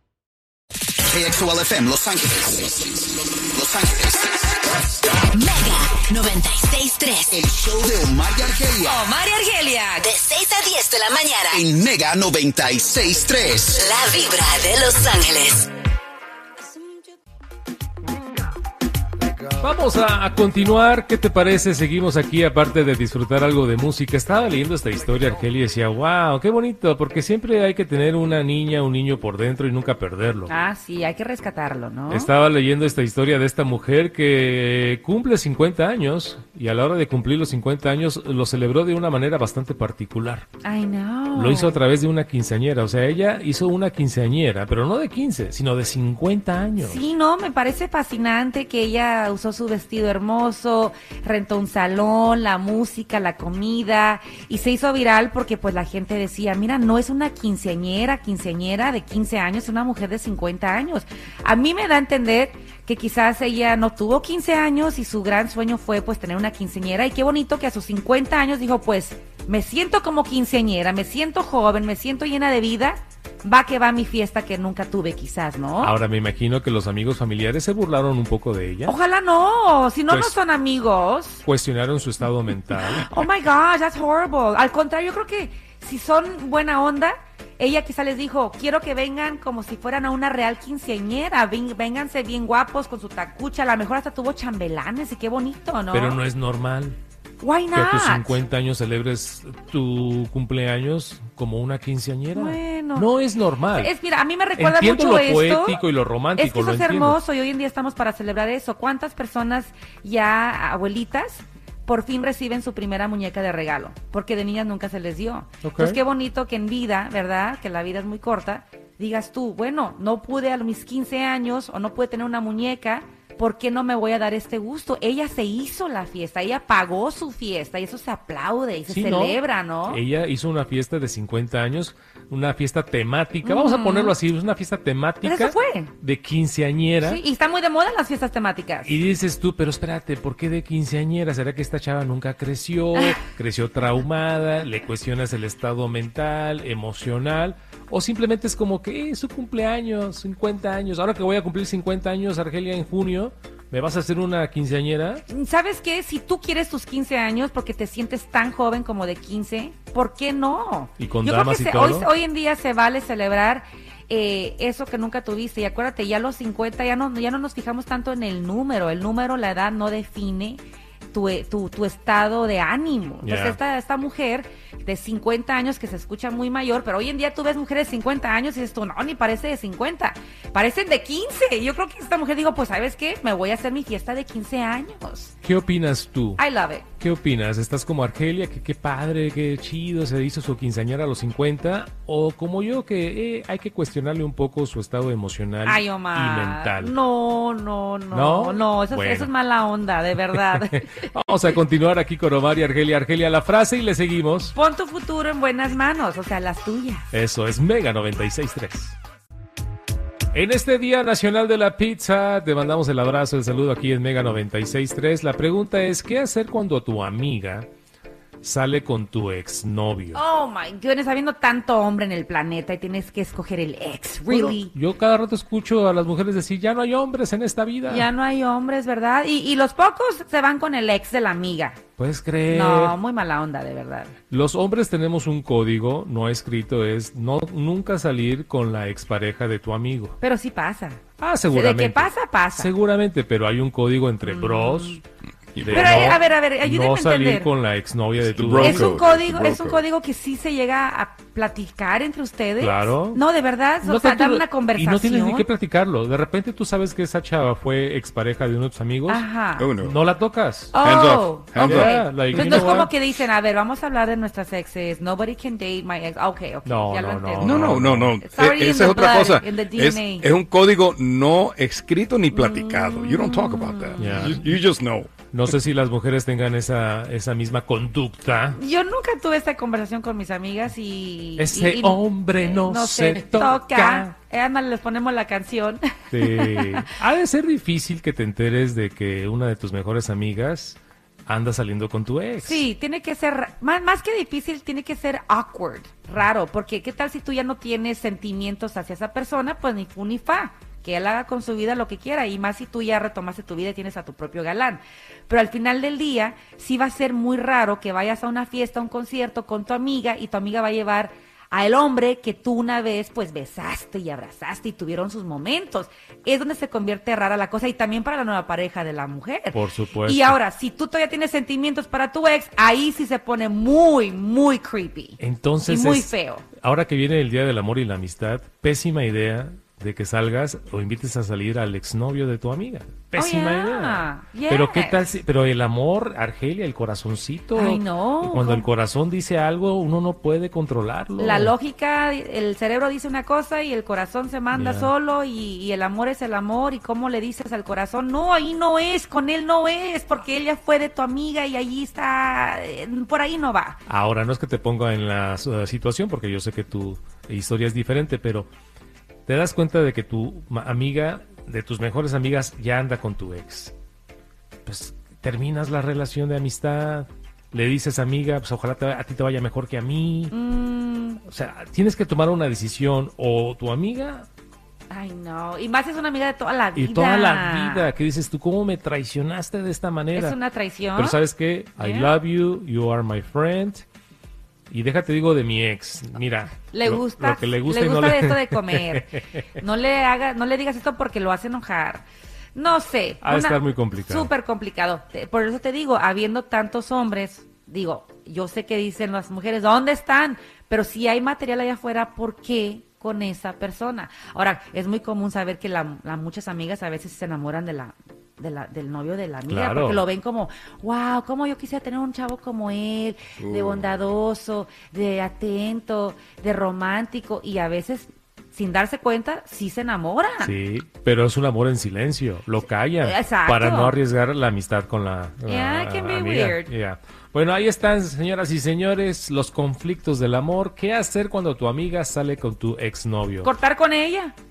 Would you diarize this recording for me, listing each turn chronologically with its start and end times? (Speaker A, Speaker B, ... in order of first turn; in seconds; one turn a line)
Speaker A: 1.1-4.5
Speaker B: 5.4-7.3
Speaker A: 7.2-9.0
Speaker C: 8.9-10.1
Speaker B: 10.0-11.6
Speaker A: 11.5-13.9
Speaker B: 13.8-15.7
Speaker D: 19.6-30.5
Speaker C: 30.5-32.3
Speaker D: 32.1-40.5
Speaker C: 40.6-41.8
Speaker D: 41.4-47.0
Speaker C: 46.8-76.0
Speaker D: 75.8-79.0
Speaker C: 78.9-81.4
Speaker D: 80.1-80.4
Speaker D: 81.4-83.1
Speaker C: 83.0-96.2
Speaker D: 95.9-97.0
Speaker C: 97.4-98.4
Speaker D: 97.7-103.9
Speaker C: 102.3-103.1
Speaker C: 103.8-105.8
Speaker D: 104.6-107.2
Speaker C: 106.4-130.0
Speaker D: 115.6-116.0
Speaker D: 128.9-137.2
Speaker C: 133.4-134.2
Speaker C: 135.2-135.9
Speaker C: 137.0-139.0
Speaker D: 138.8-155.2
Speaker C: 155.3-185.3
Speaker D: 161.0-162.1
Speaker D: 173.2-173.6
Speaker D: 185.4-186.4
Speaker C: 186.4-186.9
Speaker D: 187.0-196.9
Speaker C: 195.6-201.0
Speaker D: 198.1-199.3
Speaker D: 200.3-204.6
Speaker C: 204.5-207.1
Speaker D: 207.1-209.0
Speaker D: 210.3-217.7
Speaker D: 218.4-220.2
Speaker C: 220.1-224.7
Speaker D: 224.3-228.1
Speaker C: 227.9-231.8
Speaker D: 232.0-233.0
Speaker C: 232.5-234.2
Speaker D: 234.3-240.2
Speaker C: 240.2-242.7
Speaker D: 241.2-245.0
Speaker C: 244.2-245.0
Speaker E: 245.6-246.2
Speaker D: 245.6-249.0
Speaker C: 245.7-247.5
Speaker E: 248.3-249.8
Speaker C: 248.6-255.5
Speaker D: 252.6-253.2
Speaker D: 253.8-259.3
Speaker C: 259.1-259.7
Speaker E: 259.6-260.0
Speaker D: 259.8-260.8
Speaker C: 260.7-270.3
Speaker E: 260.8-262.7
Speaker D: 261.6-262.9
Speaker D: 266.6-268.2
Speaker E: 267.4-275.1
Speaker C: 272.3-274.2
Speaker D: 274.0-274.6
Speaker D: 275.3-278.6
Speaker C: 278.6-286.9
Speaker D: 281.4-284.1
Speaker D: 286.1-292.7
Speaker C: 292.4-326.5
Speaker D: 319.5-320.4
Speaker D: 325.2-341.6
Speaker C: 333.1-335.1
Speaker C: 337.5-338.6
Speaker C: 341.2-353.8
Speaker D: 344.5-344.9
Speaker D: 353.9-358.5
Speaker D: 359.3-363.8
Speaker D: 364.6-370.4
Speaker C: 370.3-371.2
Speaker D: 371.2-374.3
Speaker C: 374.9-377.9
Speaker D: 376.8-380.4
Speaker C: 380.1-381.2
Speaker D: 381.0-383.8
Speaker C: 381.8-382.1
Speaker D: 384.7-389.4
Speaker C: 386.7-420.5
Speaker D: 393.2-394.3
Speaker D: 409.5-410.0
Speaker E: 413.4-413.8
Speaker D: 420.4-433.5
Speaker C: 423.0-424.0
Speaker C: 425.5-426.7
Speaker C: 433.4-434.3